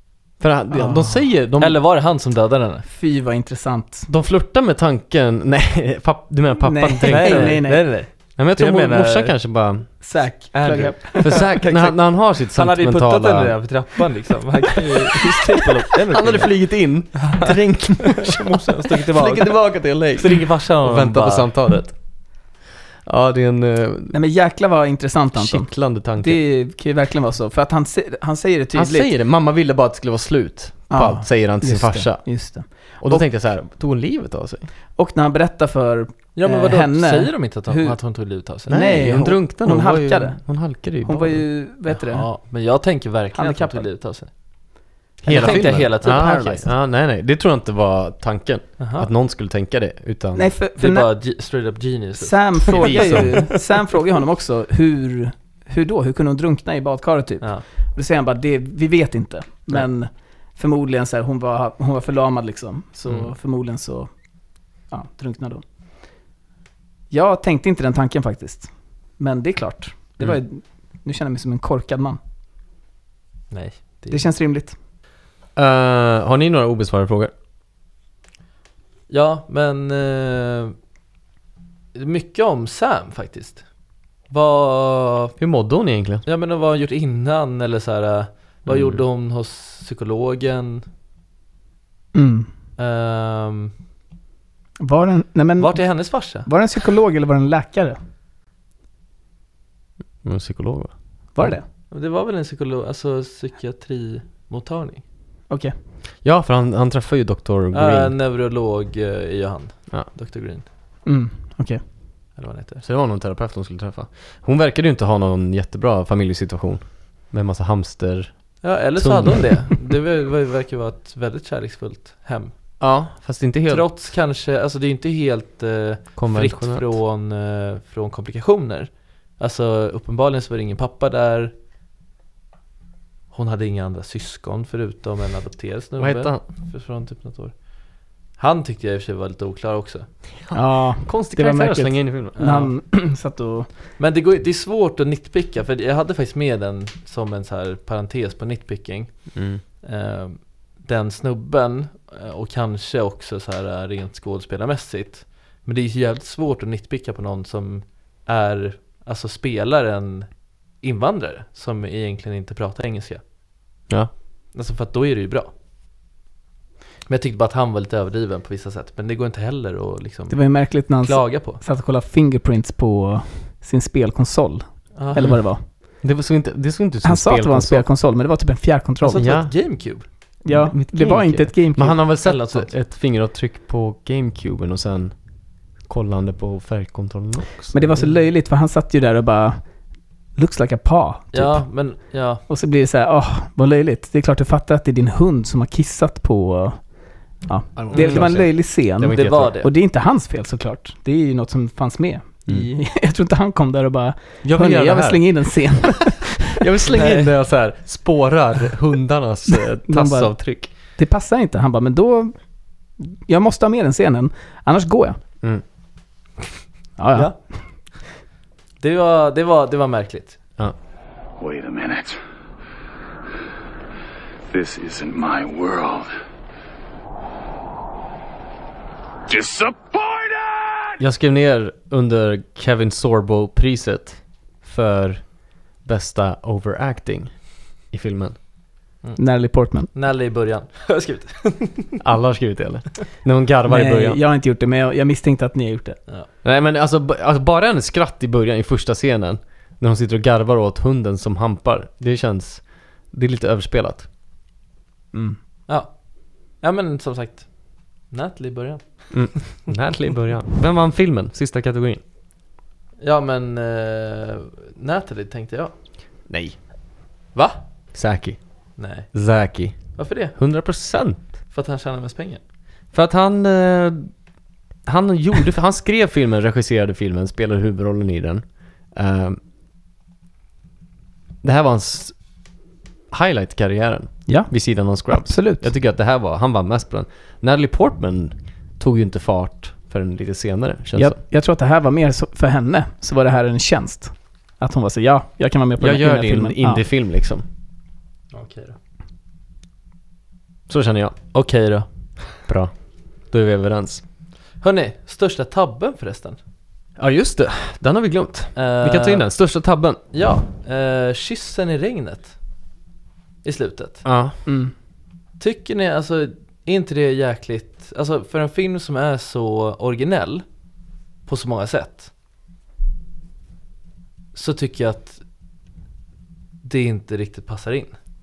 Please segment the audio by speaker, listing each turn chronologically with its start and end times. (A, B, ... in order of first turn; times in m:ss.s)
0:00.4-0:01.8 A
0:00.7-0:01.2 B
0:01.6-0:02.8 C
0:02.9-0:04.1 B
0:04.1-0:07.7 A
0:06.6-0:08.0 B
0:07.0-0:09.3 C
0:08.4-0:09.9 A
0:10.0-0:11.4 B
0:10.5-0:17.5 C
0:11.2-0:13.6 A
0:16.1-0:18.4 A
0:18.0-0:21.5 C
0:19.0-0:22.0 A
0:23.0-0:24.1 A
0:24.1-0:29.1 B
0:25.3-0:26.4 A
0:28.7-0:34.7 A
0:30.9-0:33.2 B
0:35.0-0:38.0 B
0:36.4-0:38.8 C
0:38.7-0:42.3 B
0:38.7-0:41.4 A
0:41.9-0:44.3 C
0:43.3-0:43.8 B
0:45.2-0:50.5 A
0:45.2-0:46.6 B
0:45.3-0:46.7 C
0:48.8-0:49.1 C
0:50.4-0:51.1 B
0:50.8-0:53.5 C
0:52.2-1:04.1 B
0:52.7-0:53.4 A
1:03.0-1:03.3 C
1:04.9-1:05.6 B
1:07.1-1:12.2 B
1:13.5-1:14.2 C
1:14.1-1:14.7 B
1:15.6-1:17.3 A
1:19.1-1:20.7 C
1:21.9-1:23.7 C
1:24.2-1:25.4 C
1:25.4-1:26.2 A
1:26.2-1:30.8 C
1:28.6-1:29.0 A
1:32.1-1:32.5 B
1:32.8-1:33.7 C
1:34.8-1:38.0 B
1:35.6-1:36.5 C
1:40.2-1:41.6 A
1:41.3-1:41.6 B
1:41.9-1:45.0 C
1:45.5-1:45.7 B
1:46.2-1:48.1 A
1:47.7-1:50.6 C
1:51.0-1:51.8 B
1:52.4-1:52.8 C
1:52.8-1:59.8 A
1:58.6-2:02.8 C
2:02.8-2:03.8 A
2:03.7-2:11.5 C
2:06.2-2:07.0 A
2:13.3-2:20.2 C
2:16.0-2:16.4 A
2:20.5-2:22.4 A
2:20.5-2:23.7 B
2:22.3-2:22.7 C
2:24.0-2:43.2 C
2:29.3-2:29.6 A
2:44.5-2:45.5 C
2:47.0-2:51.6 C
2:50.3-2:55.6 B
2:55.0-2:55.4 C
2:56.0-2:57.8 A
2:57.0-2:59.2 B
2:59.0-3:00.0 C
2:59.1-2:59.5 A
3:00.4-3:07.8 A
3:00.4-3:02.0 B
3:02.0-3:02.7 C
3:07.7-3:09.6 B
3:10.4-3:11.7 B
3:11.3-3:12.4 C
3:12.5-3:26.5 B
3:17.8-3:19.5 A
3:17.9-3:19.7 C
3:24.4-3:25.2 A
3:26.6-3:30.7 A
3:26.9-3:27.3 C
3:29.8-3:35.2 B
3:37.0-3:37.6 B
3:37.1-3:37.4 C
3:38.8-3:40.4 C
3:41.4-3:42.2 D
3:44.5-3:46.1 D
3:49.3-3:50.8 D
3:51.0-3:58.4 A
3:59.0-4:01.9 C
3:59.2-3:59.9 B
4:02.0-4:04.2 A
4:03.7-4:06.0 B
4:06.4-4:14.1 A
4:15.1-4:15.4 B
4:15.7-4:19.4 C
4:19.1-4:22.0 A
4:23.0-4:25.8 C
4:26.3-4:26.6 A
4:27.3-4:27.6 C
4:27.9-4:31.3 A
4:28.8-4:29.1 C
4:29.9-4:30.4 C
4:31.5-4:32.4 C
4:32.9-4:34.2 A
4:34.8-4:39.4 A
4:41.4-4:42.4 A
4:43.1-4:51.2 A
4:44.3-4:45.7 B
4:51.0-4:56.8 B
4:55.8-4:57.4 A
4:58.3-4:58.8 C
5:00.7-5:01.2 A
5:01.3-5:01.9 C
5:02.4-5:04.0 A
5:04.6-5:06.4 C
5:07.0-5:10.0 A
5:08.5-5:09.3 C
5:10.1-5:12.4 C
5:13.4-5:14.0 C
5:14.0-5:14.4 A
5:14.4-5:14.7 B
5:15.4-5:20.6 C
5:21.2-5:22.1 C
5:24.3-5:25.2 C
5:26.6-5:27.9 C